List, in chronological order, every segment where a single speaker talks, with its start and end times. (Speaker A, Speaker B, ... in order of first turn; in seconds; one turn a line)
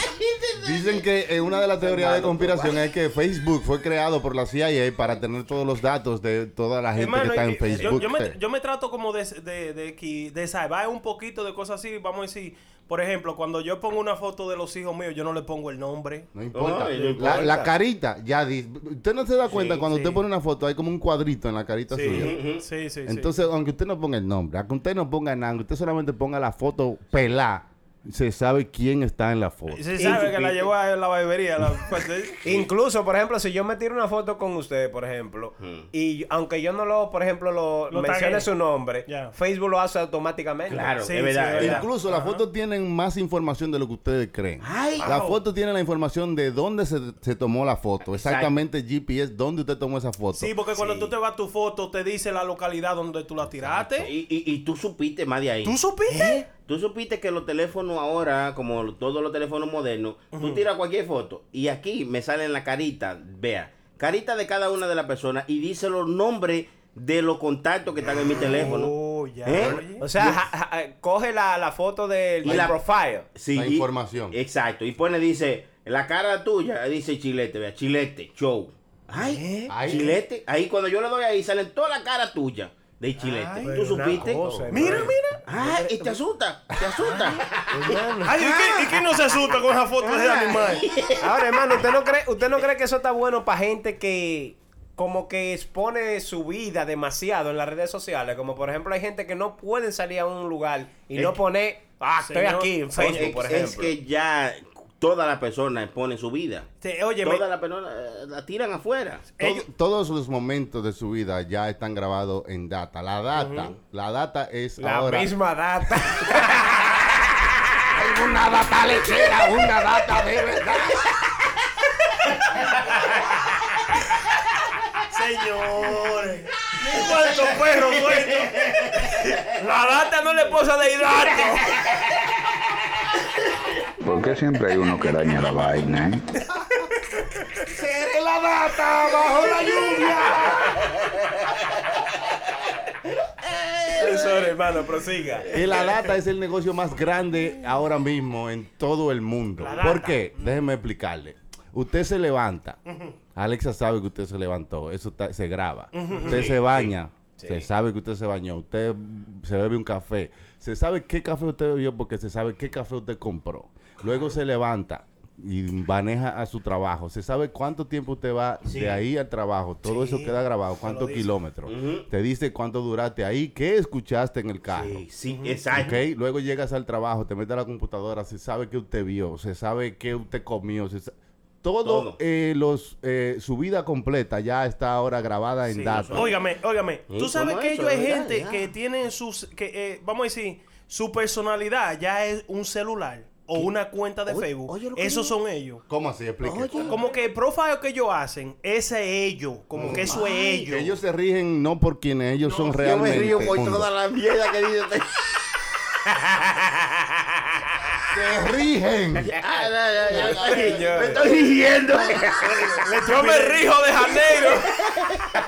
Speaker A: 0.3-1.0
Speaker B: 0.6-8.4
Speaker A: 1.8-2.8
Speaker C: 7.0-16.3
Speaker B: 16.3-22.4
Speaker A: 16.5-17.7
Speaker C: 16.9-17.4
Speaker A: 19.5-19.8
Speaker C: 19.9-20.2
Speaker C: 21.9-23.3
Speaker A: 22.1-22.6
Speaker B: 23.1-30.5
Speaker C: 29.7-32.4
Speaker D: 30.0-30.3
Speaker D: 32.4-41.7
Speaker A: 35.6-35.9
Speaker C: 37.9-38.5
Speaker C: 39.1-39.3
Speaker A: 40.7-41.8
Speaker C: 41.0-42.4
Speaker B: 41.6-50.5
Speaker A: 44.6-45.1
Speaker C: 45.0-45.4
Speaker A: 48.1-48.5
Speaker C: 50.4-54.1
Speaker A: 50.8-51.1
Speaker B: 53.5-54.1
Speaker A: 54.0-68.9
Speaker C: 55.6-56.5
Speaker C: 60.3-60.6
Speaker C: 68.2-70.0
Speaker A: 69.5-70.3
Speaker D: 70.0-73.3
Speaker A: 72.4-72.8
Speaker A: 73.3-87.7
Speaker B: 73.5-74.4
Speaker C: 79.2-79.7
Speaker B: 79.7-80.2
Speaker C: 83.2-83.9
Speaker D: 83.6-86.2
Speaker B: 84.3-84.6
Speaker C: 84.7-85.4
Speaker C: 87.1-87.4
Speaker D: 87.8-88.2
Speaker C: 88.2-90.9
Speaker A: 88.3-89.1
Speaker A: 90.0-91.3
Speaker D: 91.2-103.9
Speaker C: 102.2-103.4
Speaker A: 103.0-106.7
Speaker C: 106.8-107.4
Speaker A: 107.2-109.3
Speaker C: 109.4-109.7
Speaker B: 109.4-115.3
Speaker C: 113.4-113.7
Speaker D: 114.8-116.9
Speaker B: 117.9-121.2
Speaker C: 125.1-128.7
Speaker D: 129.6-131.6
Speaker E: 134.0-136.2
Speaker B: 137.7-140.8
Speaker A: 143.6-143.9
Speaker D: 144.0-145.6
Speaker B: 145.5-152.8
Speaker C: 149.6-150.5
Speaker C: 152.9-153.1
Speaker B: 153.3-175.1
Speaker C: 155.9-156.5
Speaker D: 157.4-157.7
Speaker A: 168.6-169.0
Speaker C: 169.8-171.3
Speaker A: 171.7-172.1
Speaker A: 174.7-176.0
Speaker C: 175.3-175.6
Speaker B: 175.7-186.3
Speaker A: 181.8-182.2
Speaker A: 185.8-186.4
Speaker C: 186.1-195.8
Speaker A: 187.1-188.7
Speaker A: 194.3-195.4
Speaker B: 195.9-197.0
Speaker A: 196.4-197.0
Speaker C: 196.8-200.9
Speaker B: 199.8-203.9
Speaker A: 199.8-200.6
Speaker C: 202.4-203.2
Speaker A: 202.8-205.3
Speaker B: 208.1-209.4
Speaker A: 209.2-212.8
Speaker B: 210.0-211.2
Speaker D: 210.4-211.2
Speaker C: 212.6-213.7
Speaker D: 213.0-214.8